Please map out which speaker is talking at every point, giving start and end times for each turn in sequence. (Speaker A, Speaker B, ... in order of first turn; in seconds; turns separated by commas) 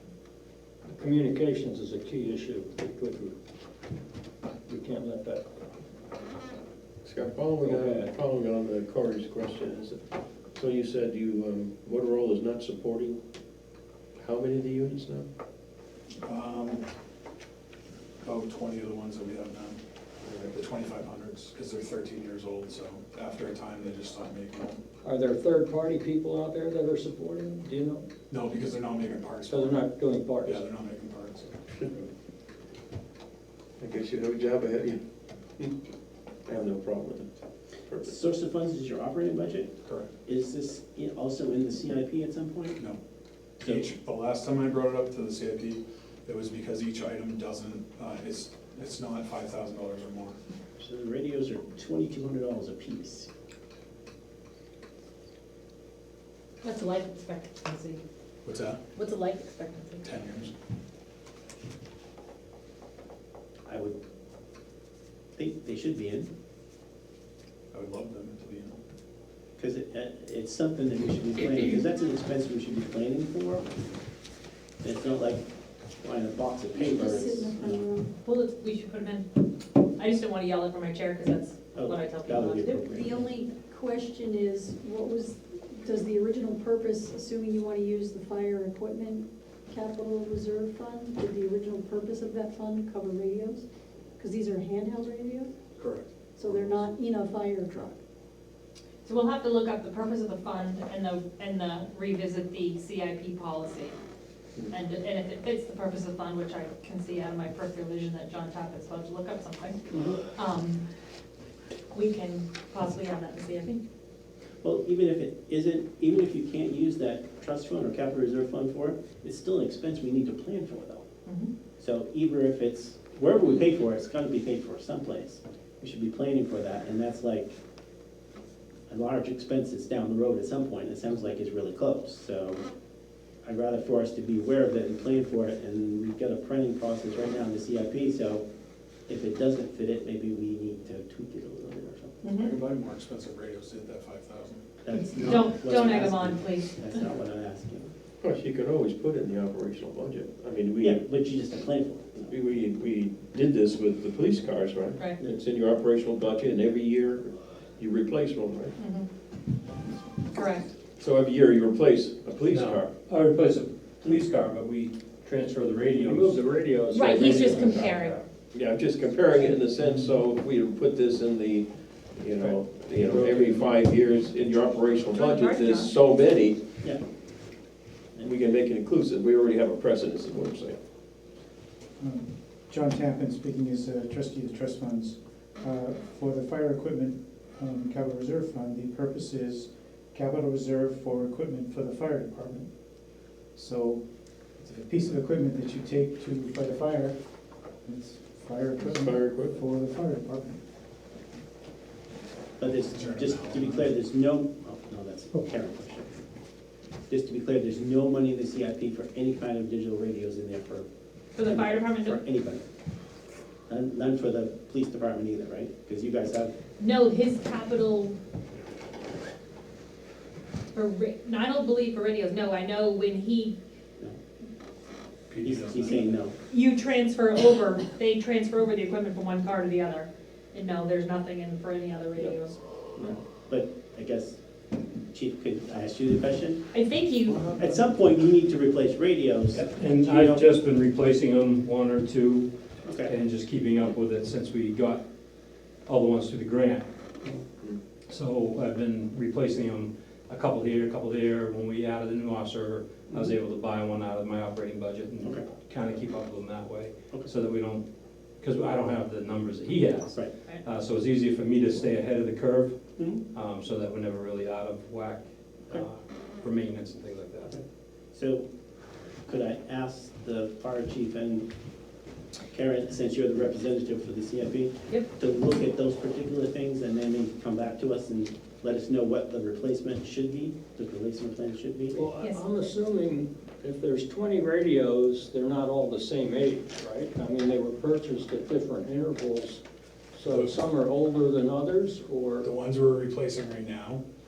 Speaker A: 0.9-3.4, Speaker A: 4.7-5.5, Speaker B: 7.0-13.2, Speaker A: 7.6-8.1, Speaker B: 14.2-15.3, Speaker C: 16.2-16.8, Speaker C: 18.2-19.8, Speaker B: 20.2-20.6, Speaker C: 20.5-24.8, Speaker A: 25.0-28.1, Speaker C: 28.3-29.8, Speaker A: 29.5-30.6, Speaker C: 30.4-31.6, Speaker B: 33.8-35.0, Speaker B: 36.5-37.3, Speaker B: 37.9-38.1, Speaker D: 38.0-39.7, Speaker C: 39.9-40.1, Speaker D: 40.2-42.8, Speaker D: 43.6-43.9, Speaker C: 43.6-50.4, Speaker D: 50.8-53.3, Speaker E: 56.6-58.0, Speaker C: 58.5-58.8, Speaker E: 59.0-60.0, Speaker C: 60.0-60.5, Speaker D: 63.7-64.0, Speaker D: 65.4-66.3, Speaker C: 67.7-68.8, Speaker D: 69.6-73.7, Speaker D: 74.8-75.5, Speaker D: 76.0-77.8, Speaker F: 76.7-78.1, Speaker E: 78.2-79.3, Speaker E: 80.0-82.7, Speaker D: 81.8-83.2, Speaker F: 82.7-93.7, Speaker F: 94.2-95.5, Speaker C: 95.8-96.1, Speaker F: 96.3-98.0, Speaker E: 99.0-104.0, Speaker E: 104.7-109.8, Speaker E: 110.3-110.8, Speaker E: 111.9-113.8, Speaker D: 114.6-121.1, Speaker E: 121.3-121.5, Speaker D: 121.8-127.5, Speaker D: 128.9-132.6, Speaker D: 133.4-138.4, Speaker D: 139.1-142.2, Speaker E: 142.2-142.5, Speaker C: 142.4-144.6, Speaker D: 144.8-147.9, Speaker E: 144.9-146.8, Speaker B: 148.2-151.0, Speaker D: 150.8-152.3, Speaker B: 152.3-158.8, Speaker E: 158.8-159.1, Speaker E: 160.3-160.7, Speaker B: 161.0-162.9, Speaker G: 162.5-166.4, Speaker A: 166.0-168.2, Speaker E: 166.9-168.2, Speaker B: 168.5-176.6, Speaker A: 172.4-173.7, Speaker E: 175.1-175.9, Speaker B: 178.2-180.8, Speaker H: 182.0-192.7, Speaker H: 193.5-197.2, Speaker H: 197.8-200.6, Speaker B: 198.8-199.6, Speaker D: 202.6-206.1, Speaker C: 202.9-203.9, Speaker D: 207.1-210.9, Speaker E: 211.3-212.2, Speaker D: 211.4-212.6, Speaker D: 213.7-216.6, Speaker E: 216.8-218.2, Speaker E: 220.7-223.6, Speaker C: 225.3-226.1, Speaker D: 225.4-226.3, Speaker E: 226.5-232.6, Speaker D: 233.0-234.4, Speaker D: 235.1-236.7, Speaker E: 236.7-237.5, Speaker D: 237.6-240.5, Speaker G: 239.6-242.5, Speaker D: 242.8-243.1, Speaker G: 243.0-245.0, Speaker G: 245.9-246.9, Speaker G: 248.1-257.8, Speaker D: 255.2-255.5, Speaker G: 258.4-267.5, Speaker D: 263.0-263.2, Speaker D: 267.5-268.4, Speaker D: 269.3-271.5, Speaker D: 272.5-282.0, Speaker A: 281.9-289.6, Speaker A: 290.1-292.5, Speaker C: 290.3-290.6, Speaker C: 292.4-294.0